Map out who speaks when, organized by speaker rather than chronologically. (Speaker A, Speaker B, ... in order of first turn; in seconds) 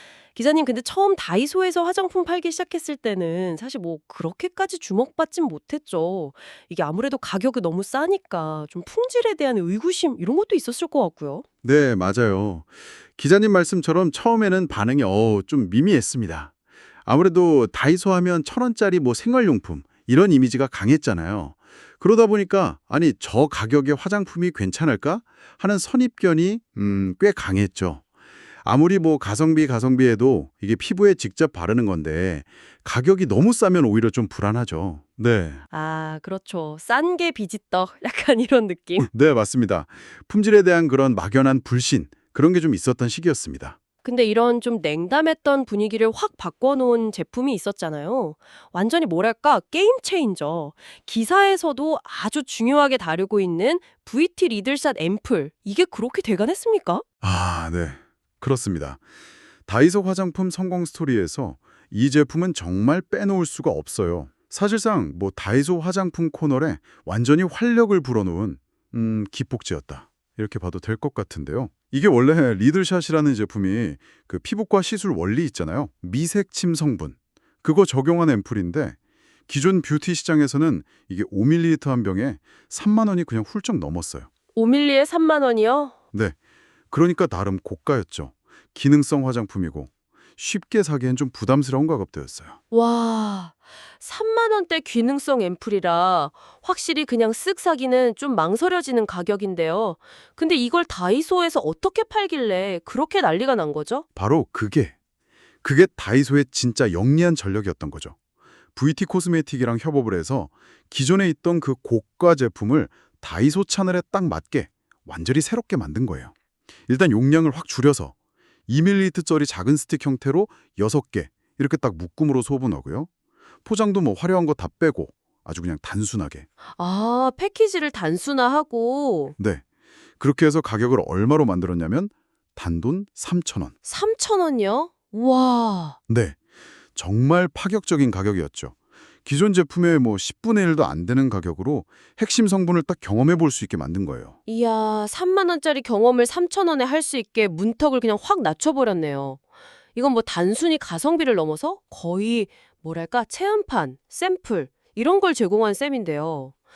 Speaker A: 0.3-11.4, 35.7-39.1, 44.0-57.0, 84.5-85.9, 92.7-104.0, 126.8-129.3, 133.8-136.0, 144.5-149.4, 149.9-156.5
Speaker B: 11.6-16.5, 17.0-28.0, 28.6-35.6, 39.0-43.8, 57.2-59.0, 59.7-79.0, 79.5-84.3, 86.9-92.6, 104.2-104.9, 105.6-108.2, 108.8-116.3, 116.9-118.1, 118.7-123.1, 123.6-126.5, 129.4-129.6, 130.2-133.7, 136.1-136.4, 136.9-144.3